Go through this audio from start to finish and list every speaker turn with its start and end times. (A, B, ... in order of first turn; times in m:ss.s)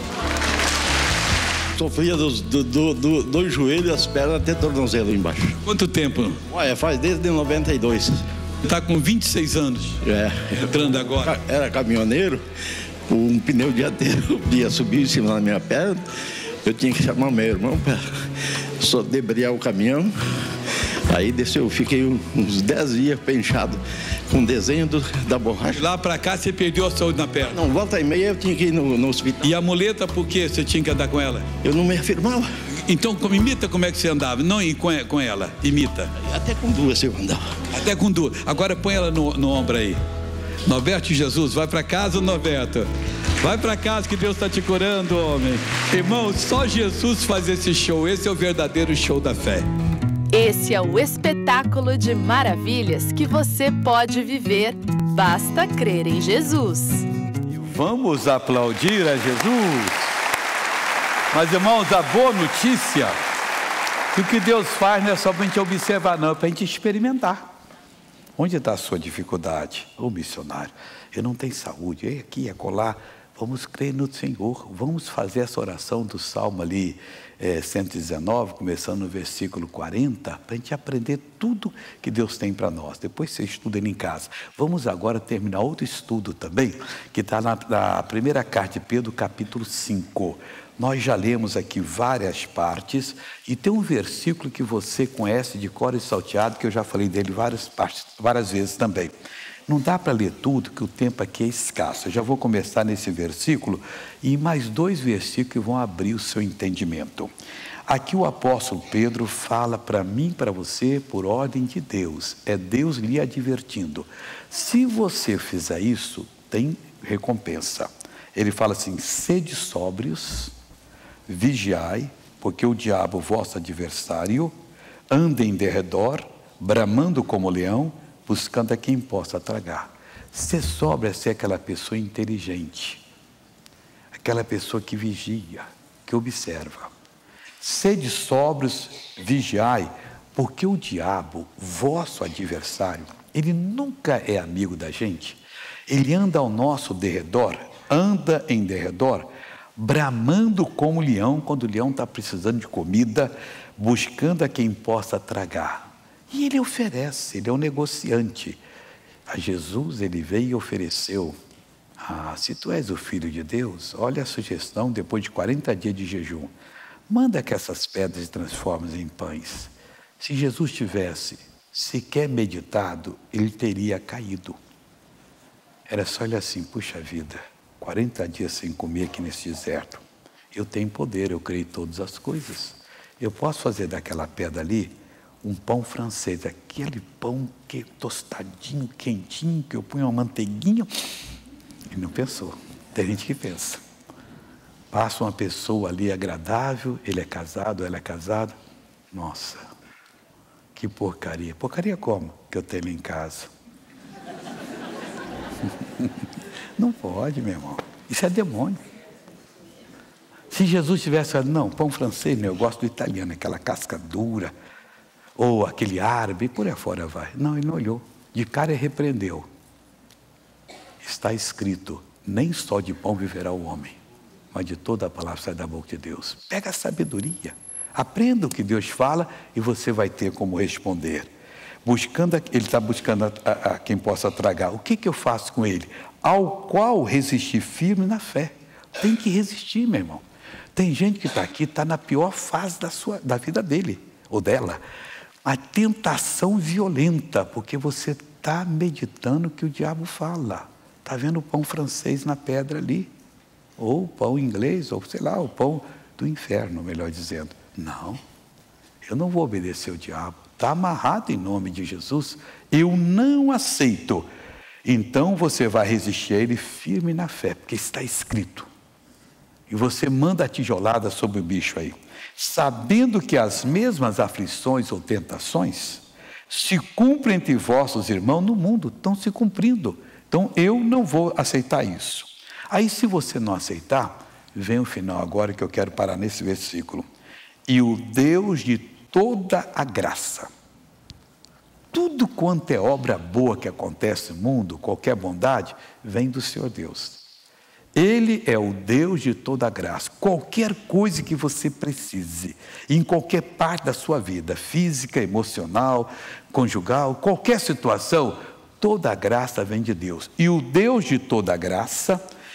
0:01.8-0:05.5 A
0:05.6-0:06.4 B
0:06.5-0:08.2 A
0:08.6-0:10.0 B
0:10.0-0:12.4 A
0:10.5-0:11.4 B
0:13.1-0:16.0 A
0:16.6-0:18.0 A
0:18.8-0:20.1 A
0:21.1-0:25.8 A
0:25.7-0:27.6 B
0:27.5-0:29.5 A
0:29.4-0:31.5 B
0:31.6-0:32.5 A
0:32.9-0:36.1 B
0:36.2-0:37.4 A
0:37.7-0:40.0 B
0:40.6-0:42.9 B
0:43.4-0:49.7 B
0:50.3-0:57.0 C
0:57.5-1:00.1 B
1:01.3-1:03.2 B
1:04.1-1:07.5 B
1:08.4-1:39.1 B
1:39.7-1:47.3 B
1:47.9-2:00.5 B
2:01.3-2:04.5 B
2:05.1-2:13.0 B
2:14.2-2:16.9 B
2:17.6-2:38.6 B
2:39.3-2:41.4 B
2:42.0-2:46.5 B
2:47.1-2:54.6 B
2:55.9-3:10.9 B
3:11.9-3:13.8 B
3:14.9-3:18.5 B
3:19.1-3:19.6 B
3:20.7-3:23.5 B
3:26.8-3:28.8 B
3:30.5-3:34.5 B
3:35.4-3:39.5 B
3:41.0-3:44.0 B
3:44.5-3:51.3 B
3:51.8-4:00.2 B
4:00.7-4:04.8 B
4:05.4-4:13.1 B
4:13.8-4:18.2 B
4:19.0-4:24.3 B
4:24.8-4:28.7 B
4:29.7-4:47.0 B
4:47.7-4:50.5 B
4:51.9-4:57.2 B
4:57.9-5:12.2 B